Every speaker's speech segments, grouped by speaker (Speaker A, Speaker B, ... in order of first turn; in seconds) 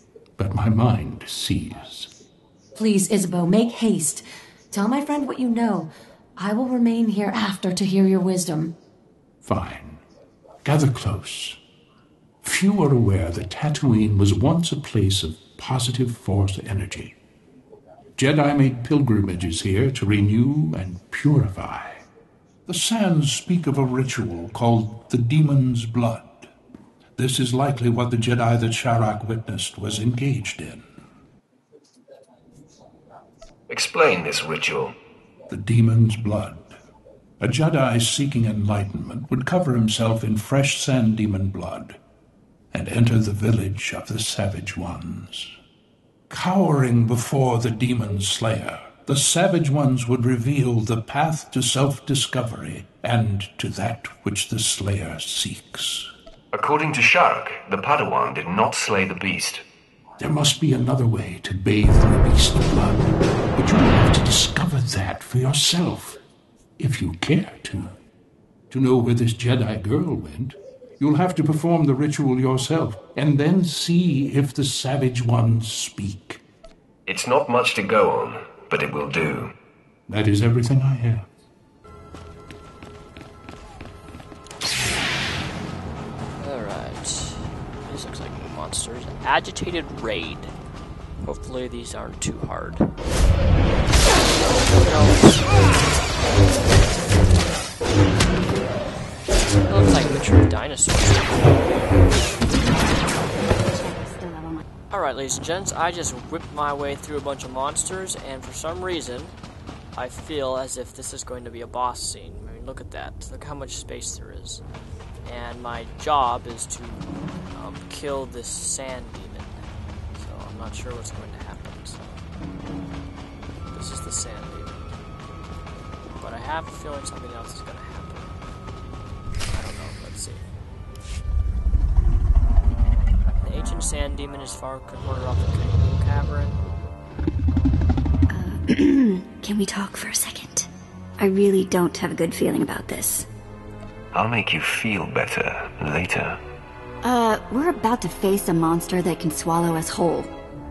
Speaker A: 0.4-2.1, 9.4-10.0, 10.6-11.6, 12.4-17.2, 18.2-22.1, 22.7-26.5, 27.2-30.8, 35.5-36.8, 37.4-42.0, 42.7-45.5, 46.3-56.1, 60.2-66.2, 66.8-68.0, 68.7-76.4, 80.1-81.3
Speaker B: 2.8-8.8
Speaker C: 33.7-35.0, 56.5-59.6, 77.1-79.5, 144.1-146.4
Speaker D: 86.4-90.5, 91.2-93.0, 94.6-95.7, 99.6-101.9, 104.9-109.3, 109.9-114.6, 115.2-119.6, 120.2-122.1, 123.7-124.9, 126.2-128.3, 129.5-130.5, 133.4-136.6
Speaker E: 102.5-104.7, 138.3-143.3, 147.0-150.3